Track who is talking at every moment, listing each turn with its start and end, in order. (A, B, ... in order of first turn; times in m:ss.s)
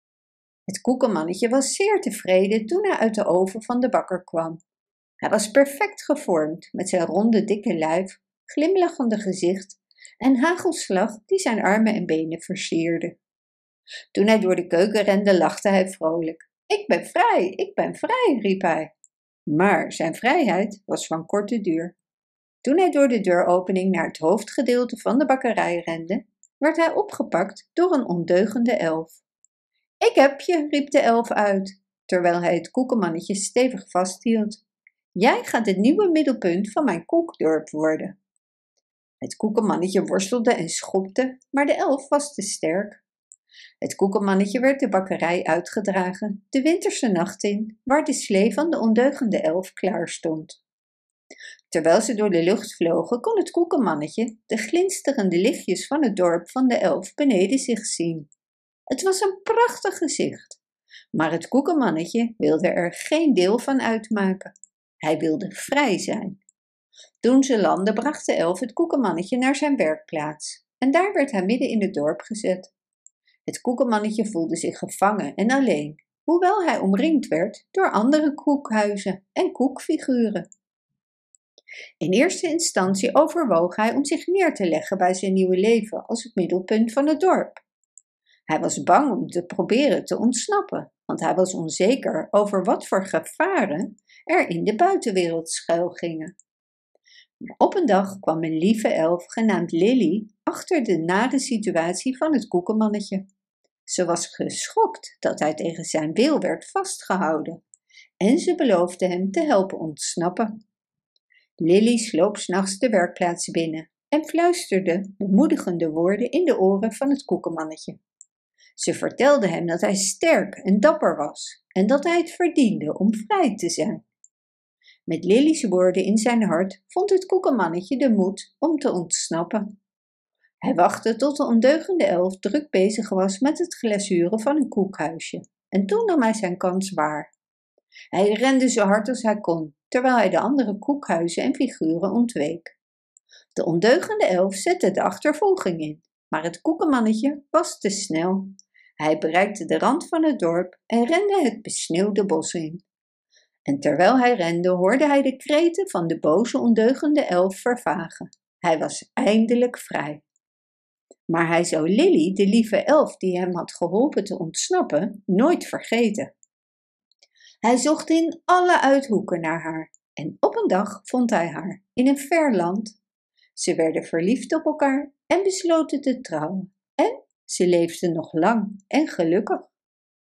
0:00.7-0:04.6 A
0:05.2-0:13.2 A
0:14.1-0:18.9 A
0:19.5-0:22.0 A
0:22.6-0:29.2 A
0:30.0-0:34.6 A
0:35.1-0:38.2 A
0:39.2-0:43.0 A
0:43.8-0:50.6 A
0:51.7-0:58.3 A
0:58.9-1:00.6 A
1:01.1-1:06.4 A
1:07.2-1:12.7 A
1:13.4-1:20.4 A
1:22.0-1:27.6 A
1:28.5-1:36.3 A
1:37.6-1:43.2 A
1:43.9-1:47.6 A
1:48.2-1:50.5 A
1:51.6-1:58.0 A
1:58.8-2:04.0 A
2:05.1-2:09.7 A
2:10.6-2:17.3 A
2:18.1-2:22.8 A
2:23.6-2:32.8 A
2:33.6-2:40.2 A
2:41.3-2:46.3 A
2:47.6-2:53.0 A
2:53.6-2:59.7 A